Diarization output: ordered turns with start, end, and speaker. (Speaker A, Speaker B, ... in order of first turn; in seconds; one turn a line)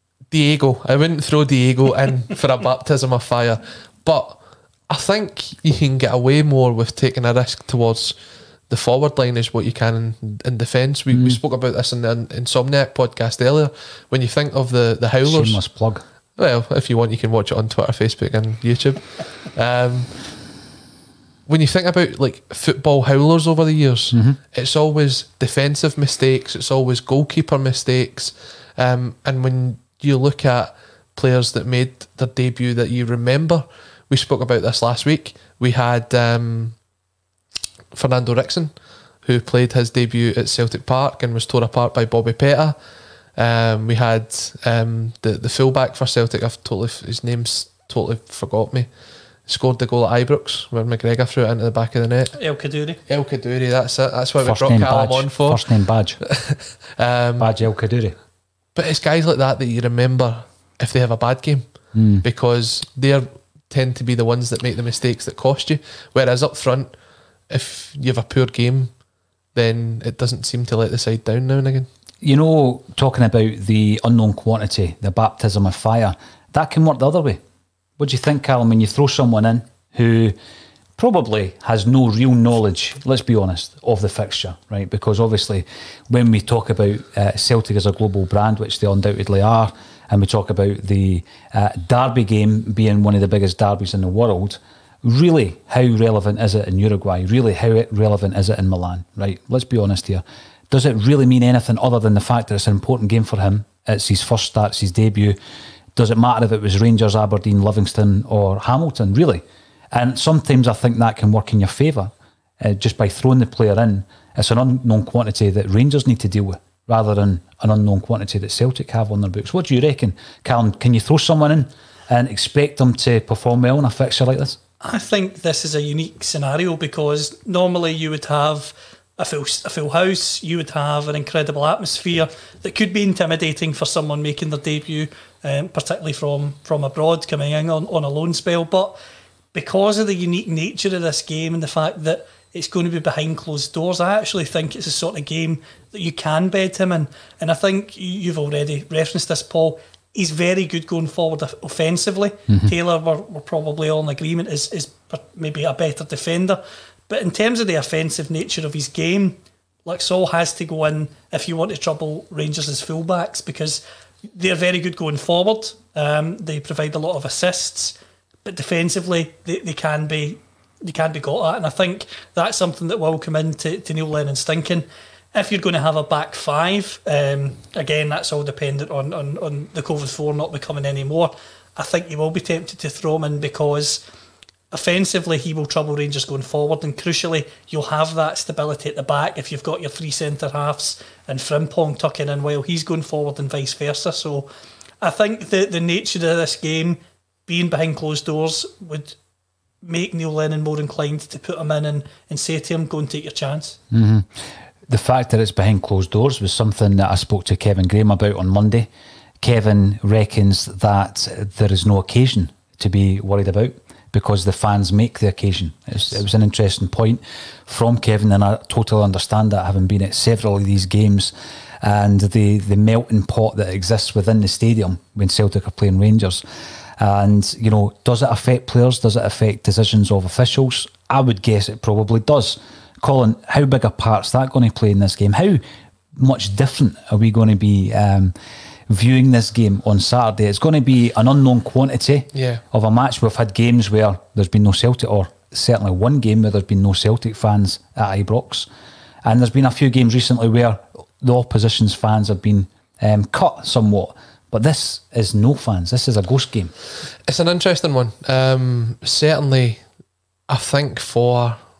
Speaker A: 0.3-8.2
Speaker A: 8.7-15.6
Speaker B: 11.1-11.4
Speaker B: 15.2-16.0
Speaker A: 16.4-20.2
Speaker A: 21.5-36.8
Speaker B: 24.1-24.4
Speaker A: 37.9-42.8
Speaker A: 43.4-48.9
Speaker A: 49.5-52.4
Speaker C: 52.4-53.0
Speaker A: 53.1-55.6
Speaker B: 54.4-56.2
Speaker A: 56.2-57.5
Speaker B: 57.4-58.1
Speaker A: 58.7-61.7
Speaker B: 61.9-62.2
Speaker A: 62.2-66.9
Speaker A: 67.5-68.9
Speaker A: 69.5-71.9
Speaker B: 72.2-77.4
Speaker B: 78.0-80.3
Speaker B: 81.0-105.4
Speaker B: 106.0-124.6
Speaker C: 124.8-139.0
Speaker C: 139.5-163.8
Speaker C: 164.3-184.0
Speaker C: 184.7-194.5
Speaker C: 195.0-199.2
Speaker C: 199.8-203.8
Speaker B: 203.9-204.3
Speaker B: 204.9-208.9
Speaker B: 209.4-226.4
Speaker B: 227.0-235.6
Speaker B: 236.2-238.3
Speaker B: 238.9-248.7
Speaker A: 242.3-242.6
Speaker B: 249.2-256.7
Speaker A: 257.3-259.8
Speaker A: 260.5-261.6